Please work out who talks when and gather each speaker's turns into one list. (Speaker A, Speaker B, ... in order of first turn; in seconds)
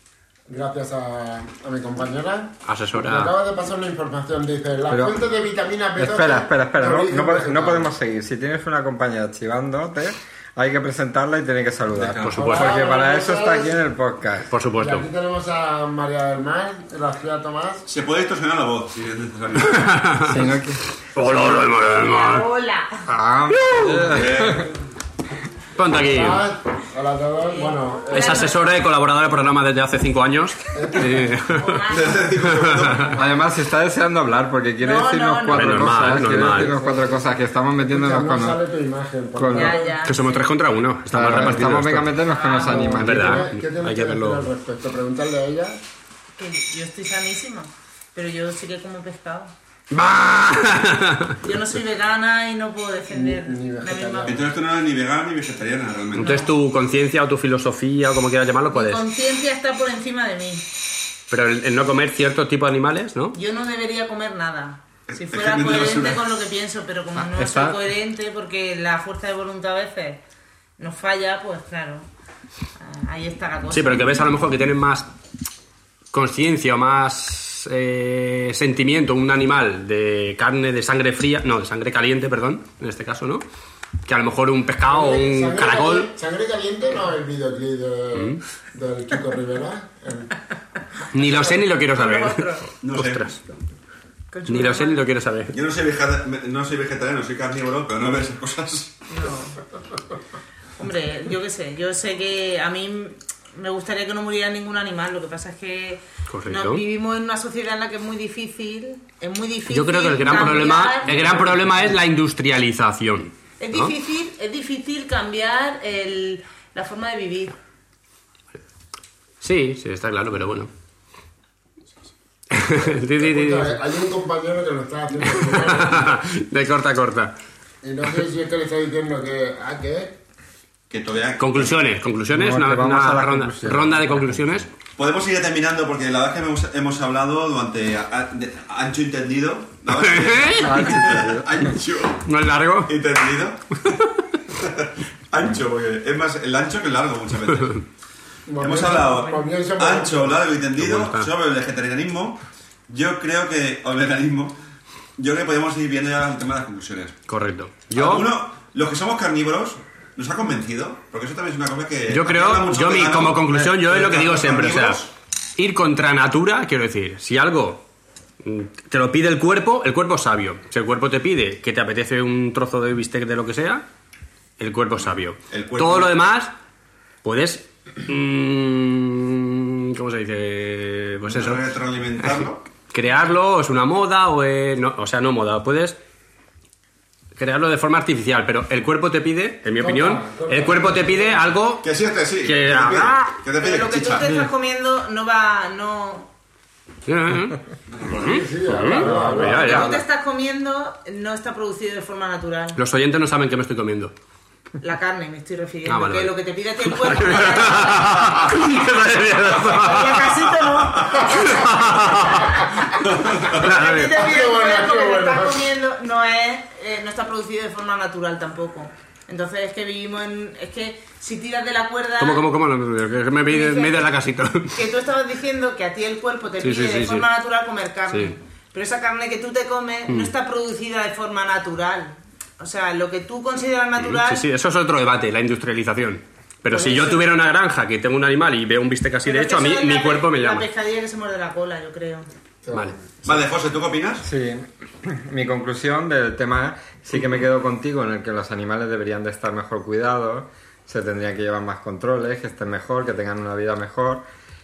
Speaker A: 0.5-7.9, 12.3-13.8, 14.7-17.9, 26.0-28.5, 30.7-31.4, 32.9-33.4, 36.3-40.0, 42.5-45.8, 53.1-54.5, 84.8-90.3, 122.6-126.2, 127.8-130.2, 148.5-150.5, 189.8-191.5, 198.1-199.9, 213.8-215.7, 242.6-243.1
Speaker B: 2.6-3.4, 12.2-12.8, 14.5-15.1, 19.6-20.4, 21.1-22.5, 23.5-24.3, 25.8-26.4, 28.1-33.1, 35.5-36.7, 40.0-42.3, 42.9-44.4, 49.9-51.4, 56.1-59.1, 61.3-63.4, 73.7-75.1, 76.1-83.4, 84.0-86.1, 88.1-88.4, 91.1-93.4, 94.5-95.6, 106.3-106.8, 109.7-113.9, 119.4-120.7, 122.5-123.8, 125.4-127.3, 131.4-134.7, 139.9-141.2, 142.2-142.9, 150.8-151.3, 157.3-158.4, 162.1-167.8, 168.4-173.8, 174.6-176.5, 177.2-186.0, 187.4-191.9, 192.4-193.3, 197.1-200.0, 202.8-204.1, 205.9-206.3, 206.9-210.5, 211.3-212.6, 213.5-214.2, 222.2-224.8, 226.6-227.3, 228.1-228.4, 234.0-240.7
Speaker C: 4.9-5.3, 6.0-14.5, 20.2-20.8, 23.1-24.7, 33.1-38.6, 39.4-39.8, 41.1-43.5, 67.2-67.8, 132.3-134.6, 140.6-141.7, 198.9-200.0, 244.2-254.2
Speaker D: 11.9-12.4, 17.9-20.2, 24.1-24.7, 31.9-33.3, 54.3-56.4, 65.1-66.3, 92.8-93.4, 95.5-99.0, 130.9-131.7, 135.0-142.2, 142.9-143.8, 144.5-147.8, 148.6-154.6, 155.2-157.2, 157.9-165.1, 175.5-176.2, 181.3-182.6, 191.8-194.3, 197.9-198.4, 213.1-213.7, 243.2-244.3
Speaker E: 21.8-23.1, 27.5-28.7, 31.5-32.4, 34.8-36.1, 39.5-40.5, 42.2-43.0, 46.4-49.5, 51.4-54.4, 56.2-56.6, 58.7-60.6, 63.3-70.2, 70.8-72.1, 72.8-74.2, 91.9-92.7, 94.3-95.0, 99.1-99.6, 100.8-111.6, 113.6-117.6, 193.6-196.3, 199.4-202.8, 204.8-208.6, 209.5-212.6, 213.4-222.5, 223.5-224.1, 224.8-234.4, 236.7-237.3, 239.2-242.3